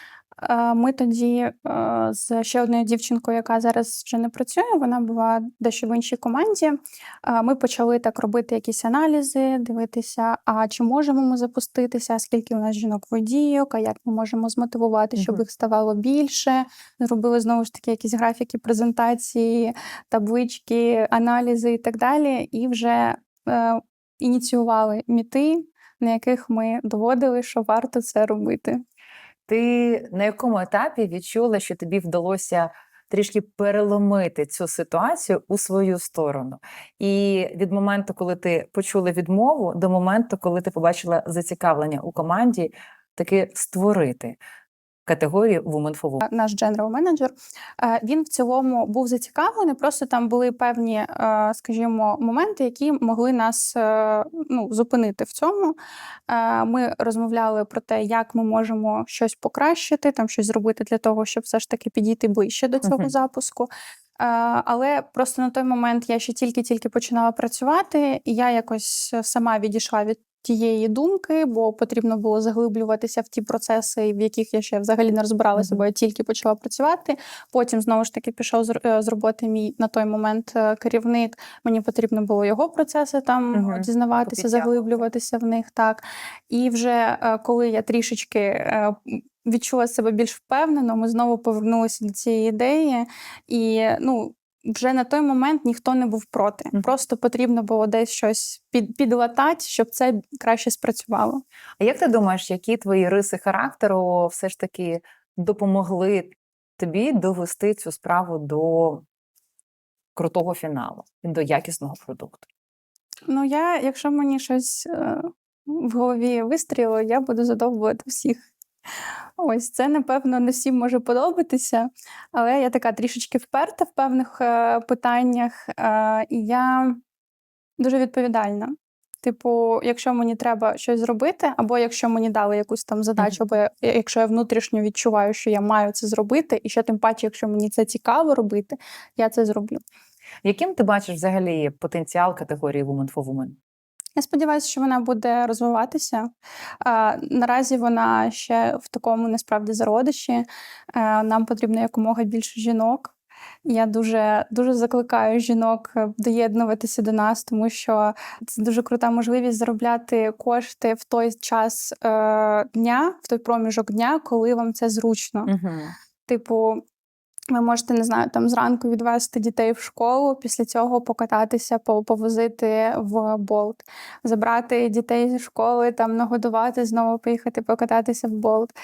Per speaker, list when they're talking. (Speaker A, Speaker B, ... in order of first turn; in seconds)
Speaker A: 0.4-28.8, 46.2-55.8, 56.3-101.4, 113.3-118.4, 119.4-127.0, 127.8-139.8, 144.2-146.3, 146.8-153.1, 153.6-165.5, 166.3-166.8, 167.5-178.7
Speaker B: 29.5-44.4, 45.0-46.2, 62.8-63.1, 75.5-75.8, 83.5-84.7, 101.8-109.0, 110.2-112.5, 140.4-143.6, 165.4-165.9